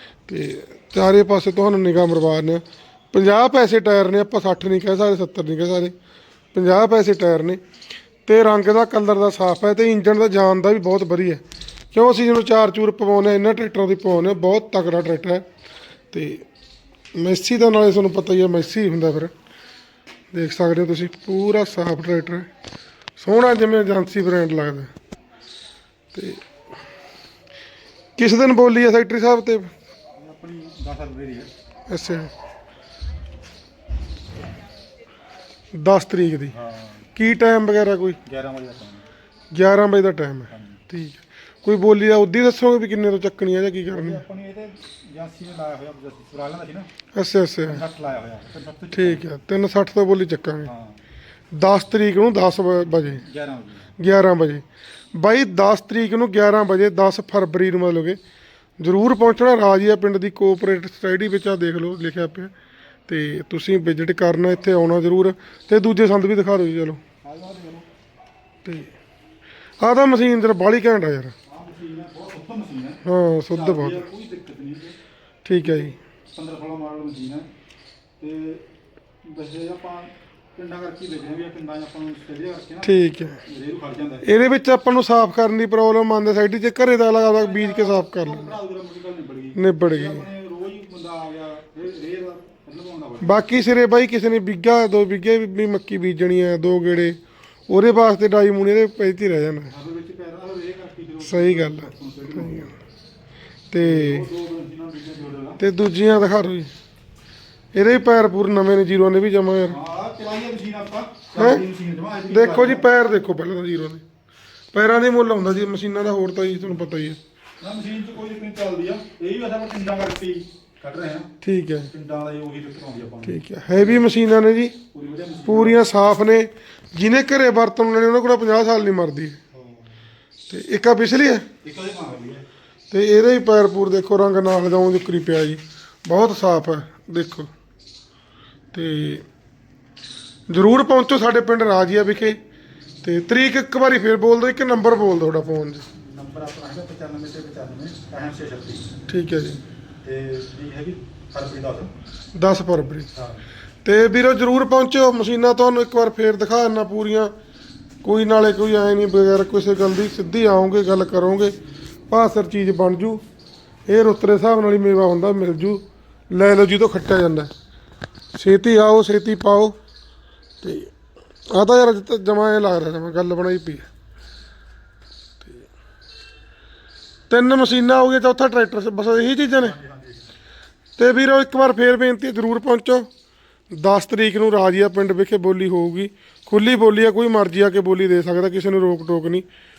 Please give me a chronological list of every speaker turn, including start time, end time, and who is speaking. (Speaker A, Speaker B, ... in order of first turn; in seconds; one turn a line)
Speaker A: 0.3-5.9
Speaker A: 6.5-7.6
Speaker A: 8.2-11.4
Speaker A: 11.9-15.4
Speaker A: 16.1-16.4
Speaker A: 17.1-19.3
Speaker A: 20.3-22.5
Speaker A: 23.2-24.9
Speaker A: 26.1-26.4
Speaker A: 28.2-29.7
Speaker B: 30.1-31.5
Speaker A: 31.9-32.3
Speaker A: 35.7-36.5
Speaker B: 36.5-37.1
Speaker A: 37.1-38.2
Speaker B: 38.2-39.1
Speaker A: 39.5-44.2
Speaker B: 40.5-40.8
Speaker B: 43.9-46.9
Speaker A: 47.1-47.8
Speaker B: 47.6-49.2
Speaker A: 48.9-50.7
Speaker B: 50.6-51.0
Speaker A: 51.5-53.2
Speaker B: 52.9-53.9
Speaker A: 54.0-54.6
Speaker A: 55.1-58.2
Speaker A: 58.8-62.5
Speaker A: 63.1-67.0
Speaker B: 67.2-67.9
Speaker A: 68.6-68.9
Speaker A: 69.8-71.3
Speaker B: 71.5-75.0
Speaker A: 73.0-74.0
Speaker A: 75.4-76.0
Speaker B: 76.3-77.5
Speaker B: 78.2-78.7
Speaker B: 79.2-84.2
Speaker A: 82.8-83.4
Speaker A: 84.2-88.5
Speaker B: 87.3-93.5
Speaker A: 89.5-90.3
Speaker A: 93.2-97.2
Speaker A: 97.7-99.7
Speaker B: 99.7-102.7
Speaker A: 101.2-102.7
Speaker A: 103.7-104.3
Speaker B: 103.8-105.6
Speaker A: 105.6-106.7
Speaker A: 107.7-109.8
Speaker B: 109.6-112.9
Speaker A: 111.3-111.6
Speaker A: 112.3-114.0
Speaker A: 114.7-117.2
Speaker B: 117.6-121.3
Speaker A: 121.4-121.9
Speaker B: 121.9-124.1
Speaker A: 123.2-124.8
Speaker B: 124.9-125.9
Speaker A: 125.5-129.4
Speaker B: 129.5-130.0
Speaker A: 130.5-131.5
Speaker B: 131.6-132.4
Speaker A: 132.9-137.5
Speaker A: 138.7-139.2
Speaker A: 140.5-142.4
Speaker A: 143.0-145.8
Speaker B: 145.9-148.9
Speaker A: 149.1-149.6
Speaker B: 150.0-151.9
Speaker A: 152.3-153.1
Speaker B: 153.1-153.4
Speaker A: 153.8-157.3
Speaker A: 158.0-161.6
Speaker A: 162.1-163.2
Speaker A: 163.9-167.5
Speaker A: 168.3-169.7
Speaker A: 170.6-170.9
Speaker A: 171.5-173.9
Speaker A: 177.3-179.8
Speaker B: 179.6-180.3
Speaker A: 181.0-183.1
Speaker A: 183.7-189.4